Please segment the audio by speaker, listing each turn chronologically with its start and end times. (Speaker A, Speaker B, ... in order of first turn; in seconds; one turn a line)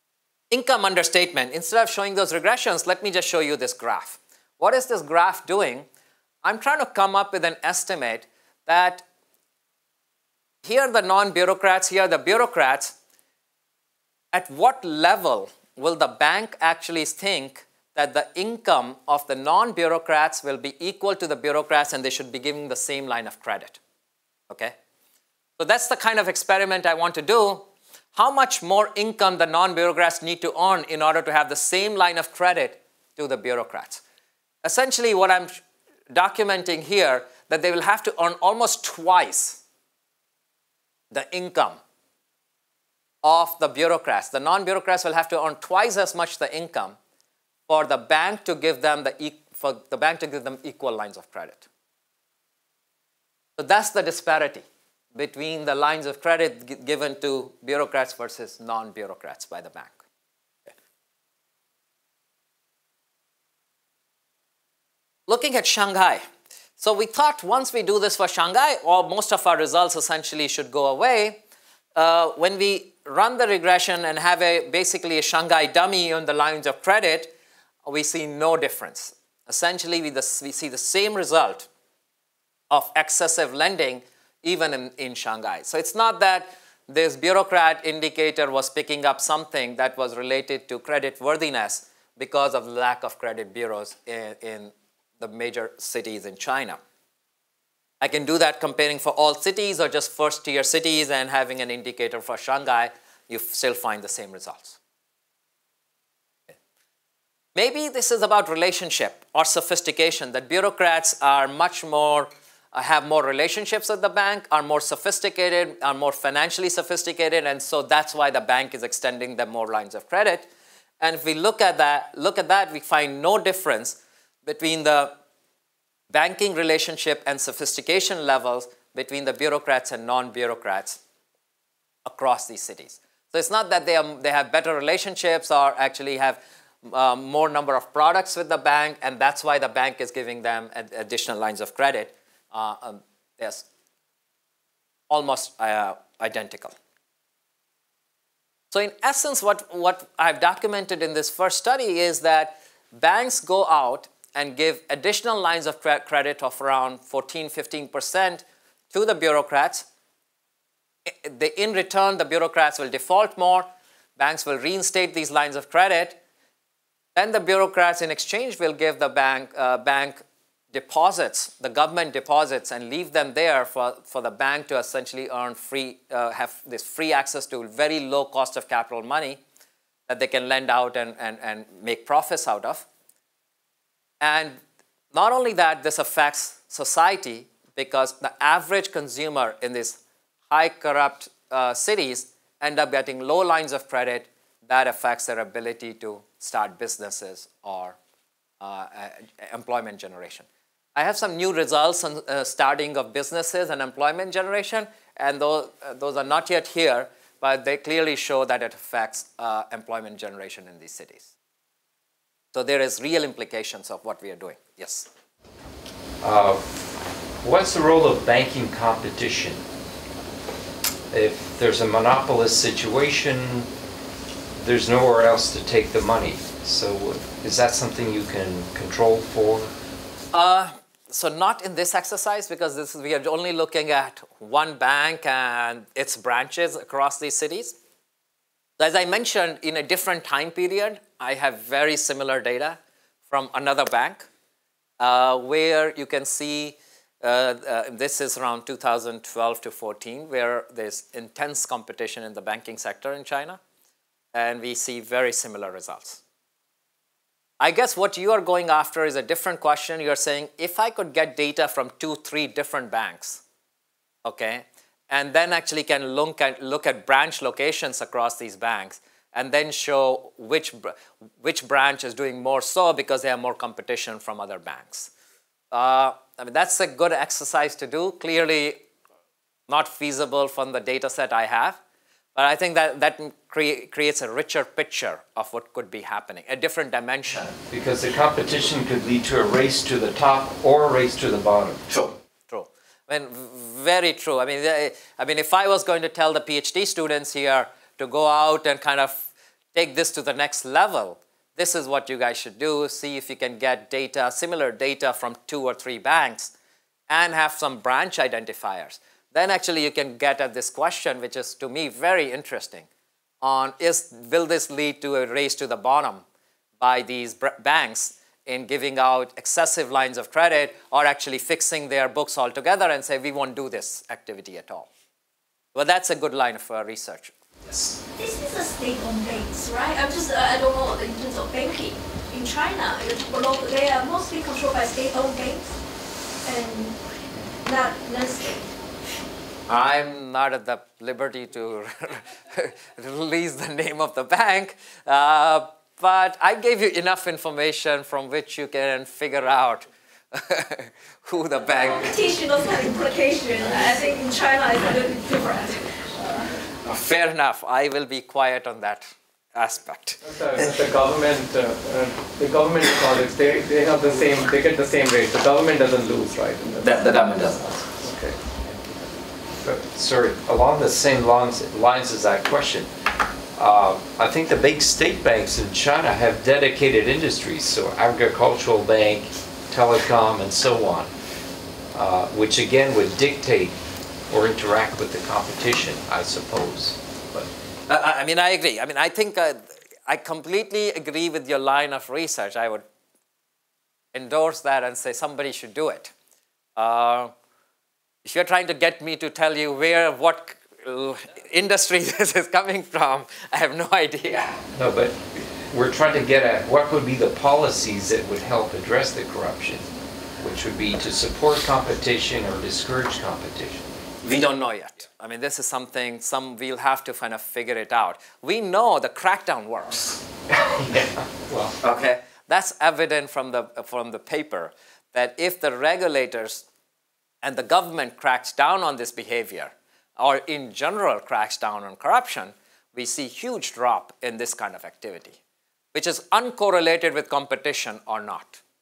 Speaker A: 0.5-5.9
Speaker A: 6.4-9.0
Speaker A: 10.6-12.9
Speaker A: 14.3-23.8
Speaker A: 24.5-24.7
Speaker A: 25.6-34.0
Speaker A: 34.6-35.6
Speaker A: 36.1-39.6
Speaker A: 41.1-41.8
Speaker A: 43.2-47.0
Speaker A: 47.7-51.6
Speaker A: 53.6-60.0
Speaker A: 65.3-66.2
Speaker A: 66.8-71.4
Speaker A: 71.9-77.3
Speaker A: 77.8-81.7
Speaker A: 82.7-96.8
Speaker A: 98.0-104.8
Speaker A: 107.5-120.5
Speaker A: 121.0-125.1
Speaker A: 126.1-131.0
Speaker A: 132.0-143.6
Speaker A: 145.1-146.7
Speaker A: 148.7-159.8
Speaker A: 161.1-166.2
Speaker A: 167.1-170.2
Speaker A: 170.7-179.4
Speaker A: 180.1-182.8
Speaker A: 184.2-184.6
Speaker A: 185.1-190.0
Speaker A: 190.5-198.0
Speaker A: 198.6-211.3
Speaker A: 212.5-215.1
Speaker B: 216.2-216.7
Speaker B: 217.4-219.6
Speaker B: 221.1-223.7
Speaker B: 224.5-229.7
Speaker A: 230.3-237.8
Speaker A: 238.8-242.8
Speaker A: 243.3-244.3
Speaker A: 245.0-253.6
Speaker A: 254.3-256.2
Speaker A: 257.6-263.4
Speaker A: 264.2-275.1
Speaker A: 275.7-278.8
Speaker A: 279.7-281.8
Speaker A: 282.3-287.5
Speaker B: 287.7-291.9
Speaker A: 291.9-306.5
Speaker A: 307.1-312.9
Speaker A: 313.4-316.2
Speaker A: 316.8-324.9
Speaker A: 325.7-327.9
Speaker C: 328.1-335.8
Speaker C: 336.4-337.0
Speaker C: 337.6-338.7
Speaker A: 339.7-352.2
Speaker C: 351.6-356.0
Speaker A: 356.8-360.7
Speaker D: 360.2-369.1
Speaker A: 366.8-367.8
Speaker B: 369.6-372.9
Speaker B: 373.5-381.1
Speaker B: 381.9-383.8
Speaker B: 384.3-387.5
Speaker A: 387.9-392.8
Speaker A: 394.1-396.1
Speaker A: 396.8-397.3
Speaker A: 398.2-404.6
Speaker B: 404.7-413.9
Speaker A: 414.2-420.2
Speaker B: 420.6-421.8
Speaker A: 421.8-426.6
Speaker A: 427.4-435.4
Speaker A: 435.9-438.6